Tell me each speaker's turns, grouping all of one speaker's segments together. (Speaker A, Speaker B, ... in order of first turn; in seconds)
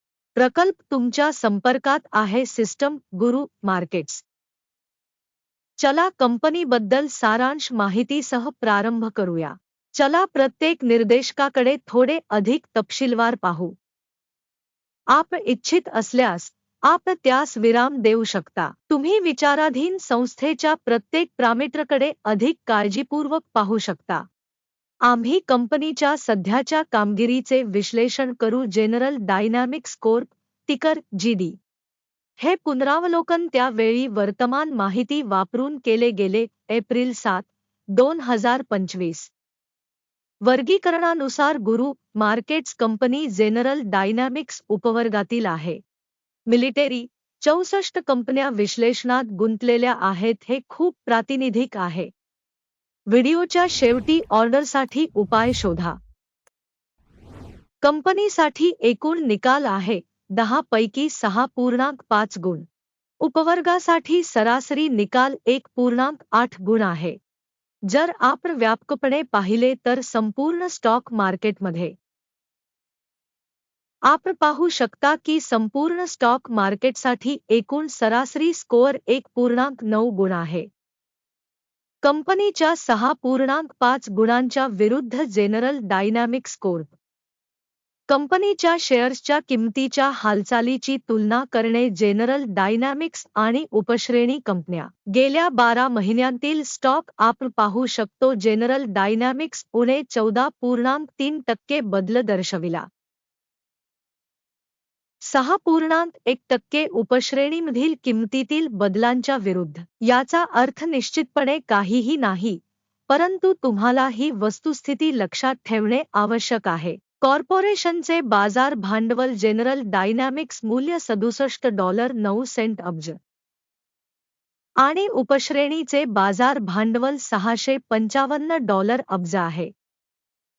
Speaker A: 0.3-4.2, 5.8-13.7, 15.1-24.2, 25.1-31.6, 32.4-39.3, 40.4-45.8, 46.5-52.1, 53.1-56.0, 57.8-62.7, 63.2-67.2, 67.9-71.9, 74.1-80.7, 82.0-86.9, 88.1-102.9, 105.2-123.2, 124.8-129.7